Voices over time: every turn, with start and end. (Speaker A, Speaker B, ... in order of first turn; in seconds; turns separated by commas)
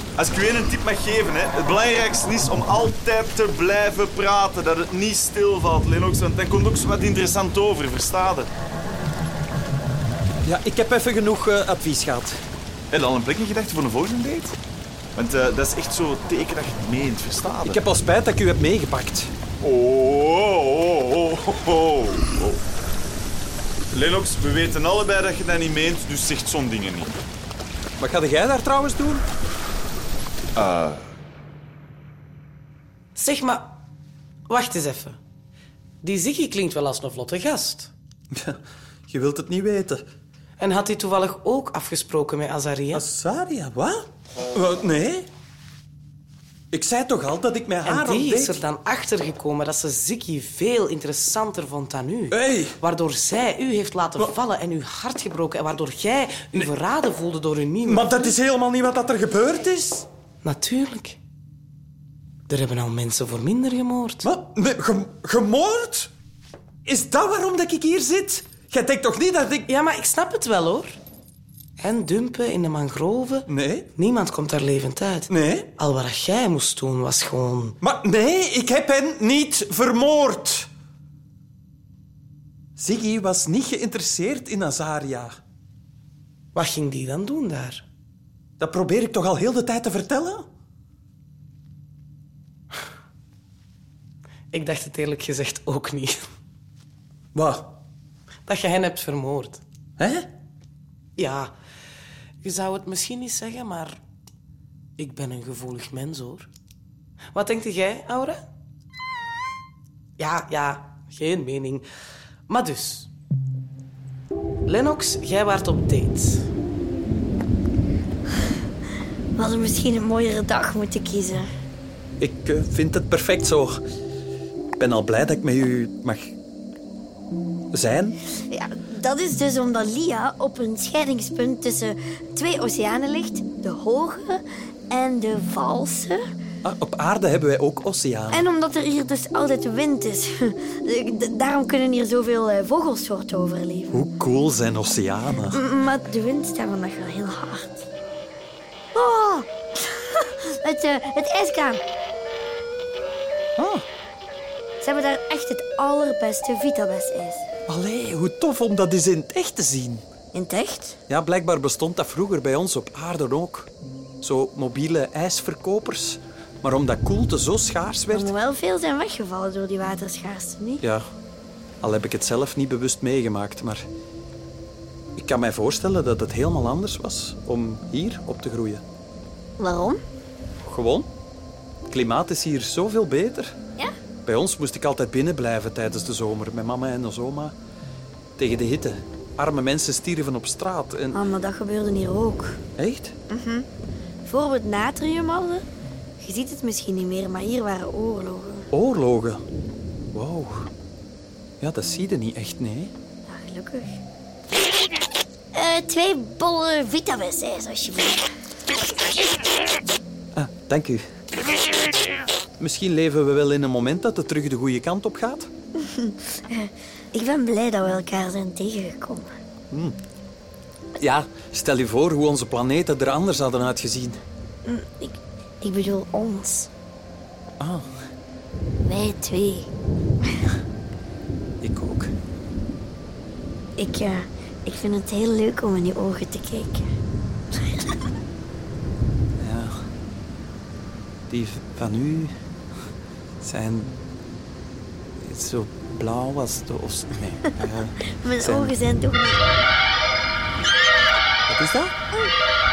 Speaker A: 0.2-8.5, Speaker B: 10.4-12.4, Speaker A: 12.9-14.6, Speaker A: 15.2-17.8, Speaker B: 17.6-19.3, Speaker A: 19.6-22.6, Speaker A: 23.9-27.2, Speaker B: 28.0-29.2, Speaker A: 30.6-31.0, Speaker C: 33.2-33.8, Speaker C: 34.5-35.2, Speaker C: 36.0-37.9, Speaker B: 38.3-40.0, Speaker C: 40.6-43.0, Speaker B: 42.9-44.0, Speaker B: 44.5-45.3, Speaker B: 46.7-48.6, Speaker C: 47.8-58.3, Speaker B: 52.3-52.8, Speaker B: 57.8-60.1, Speaker C: 60.4-61.2, Speaker C: 62.5-64.3, Speaker B: 64.2-66.1, Speaker B: 66.8-69.7, Speaker C: 69.7-71.0, Speaker C: 71.8-77.8, Speaker B: 73.5-73.9, Speaker B: 75.3-75.7, Speaker B: 77.8-80.7, Speaker B: 82.8-85.3, Speaker C: 86.5-87.8, Speaker B: 88.6-90.5, Speaker C: 94.5-96.2, Speaker B: 97.3-97.7, Speaker C: 98.5-99.6, Speaker B: 100.0-100.3, Speaker C: 101.2-101.5, Speaker C: 102.4-104.0, Speaker C: 105.0-106.5, Speaker C: 107.3-108.4, Speaker C: 110.2-111.9, Speaker C: 112.5-113.1, Speaker C: 114.7-116.5, Speaker D: 119.4-121.5, Speaker B: 122.2-123.8, Speaker B: 124.8-126.4, Speaker B: 127.7-128.2, Speaker D: 128.5-136.2, Speaker B: 136.6-138.4, Speaker D: 138.3-143.9, Speaker B: 143.9-145.6, Speaker D: 145.5-147.8, Speaker D: 148.9-151.8, Speaker B: 153.6-153.8, Speaker D: 154.8-157.4, Speaker B: 157.7-160.0, Speaker D: 160.3-161.0, Speaker B: 161.1-163.7, Speaker B: 164.2-168.3, Speaker D: 168.1-170.8, Speaker B: 171.8-173.8, Speaker B: 175.2-178.8, Speaker D: 179.6-180.0, Speaker B: 180.7-181.1, Speaker B: 181.9-183.5, Speaker B: 184.2-187.6, Speaker B: 188.4-191.2, Speaker D: 191.1-192.6, Speaker B: 192.8-193.2, Speaker D: 193.3-193.7, Speaker D: 194.2-195.7, Speaker D: 196.2-198.7, Speaker B: 198.7-199.4, Speaker B: 200.1-200.7, Speaker B: 201.6-202.9, Speaker D: 203.3-204.0, Speaker D: 205.5-208.2, Speaker B: 210.3-211.1, Speaker B: 212.6-215.5, Speaker D: 216.0-219.4, Speaker B: 219.7-220.0, Speaker B: 221.0-224.2, Speaker D: 224.7-226.7, Speaker B: 227.6-227.9, Speaker D: 228.9-229.7, Speaker B: 231.6-232.1, Speaker D: 233.8-236.9, Speaker D: 237.5-238.0, Speaker B: 239.4-239.7, Speaker B: 241.3-242.3, Speaker B: 243.4-244.0, Speaker B: 245.2-248.8, Speaker D: 248.2-249.4, Speaker B: 251.5-251.9